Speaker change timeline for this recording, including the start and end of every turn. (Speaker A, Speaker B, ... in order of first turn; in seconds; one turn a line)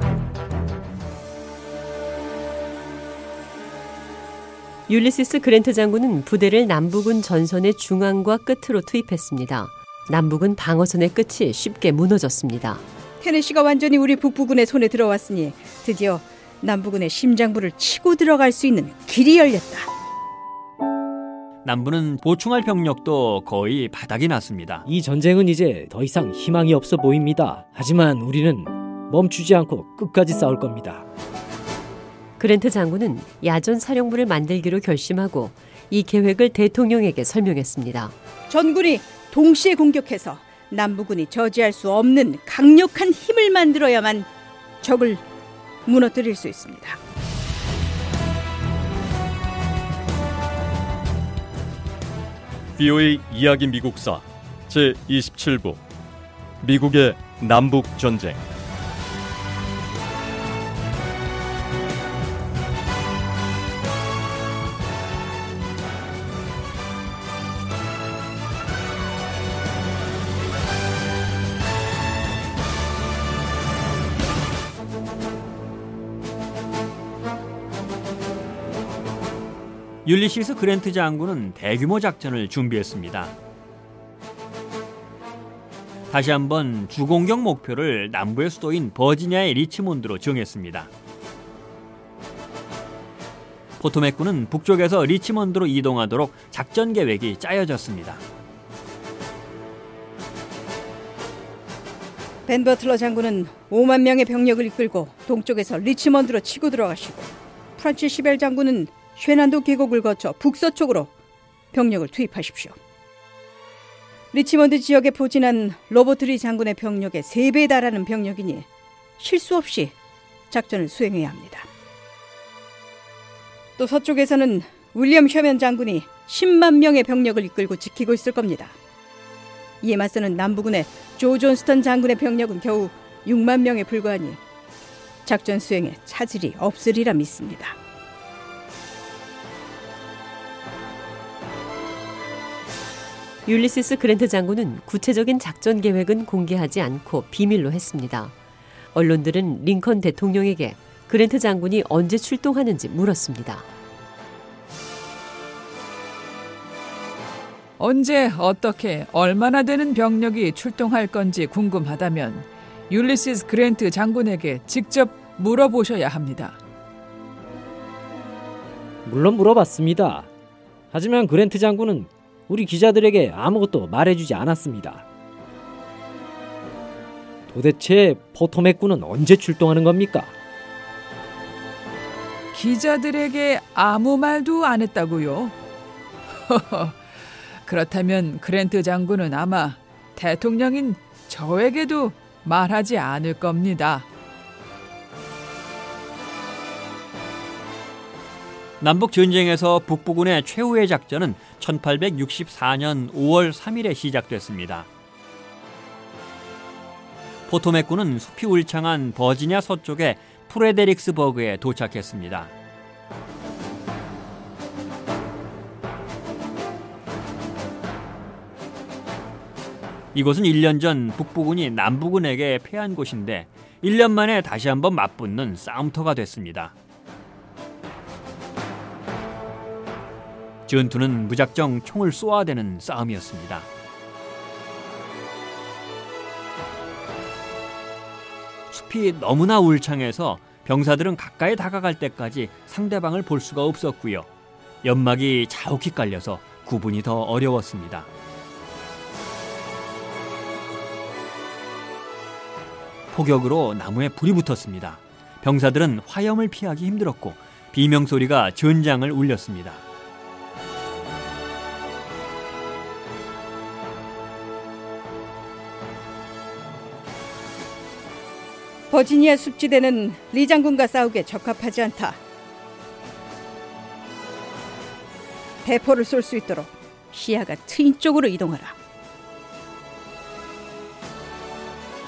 Speaker A: 4.9-12.8
Speaker B: 13.2-19.9
Speaker C: 21.6-24.9
Speaker D: 24.9-31.1
Speaker A: 32.4-38.1
Speaker B: 38.5-44.3
Speaker B: 44.8-45.2
Speaker B: 45.9-47.0
Speaker E: 52.8-55.8
Speaker E: 56.6-58.5
Speaker C: 80.0-83.3
Speaker C: 86.1-90.9
Speaker C: 93.8-98.2
Speaker B: 102.5-111.1
Speaker B: 111.7-112.8
Speaker B: 114.3-118.7
Speaker B: 119.2-119.9
Speaker B: 120.5-121.7
Speaker B: 123.8-128.8
Speaker B: 129.8-134.4
Speaker B: 135.2-137.8
Speaker A: 143.5-148.3
Speaker A: 148.9-153.7
Speaker F: 157.8-166.6
Speaker D: 169.1-170.3
Speaker D: 170.9-175.1
Speaker D: 177.5-180.3
Speaker F: 182.5-185.6
Speaker F: 186.5-187.0
Speaker F: 187.6-194.1
Speaker C: 198.8-204.9
Speaker C: 207.5-212.5
Speaker C: 220.1-226.7
Speaker C: 230.7-233.7
Speaker C: 238.7-244.3
Speaker C: 244.8-248.1
Speaker C: 253.1-259.8
Speaker B: 268.9-272.2
Speaker B: 275.6-278.8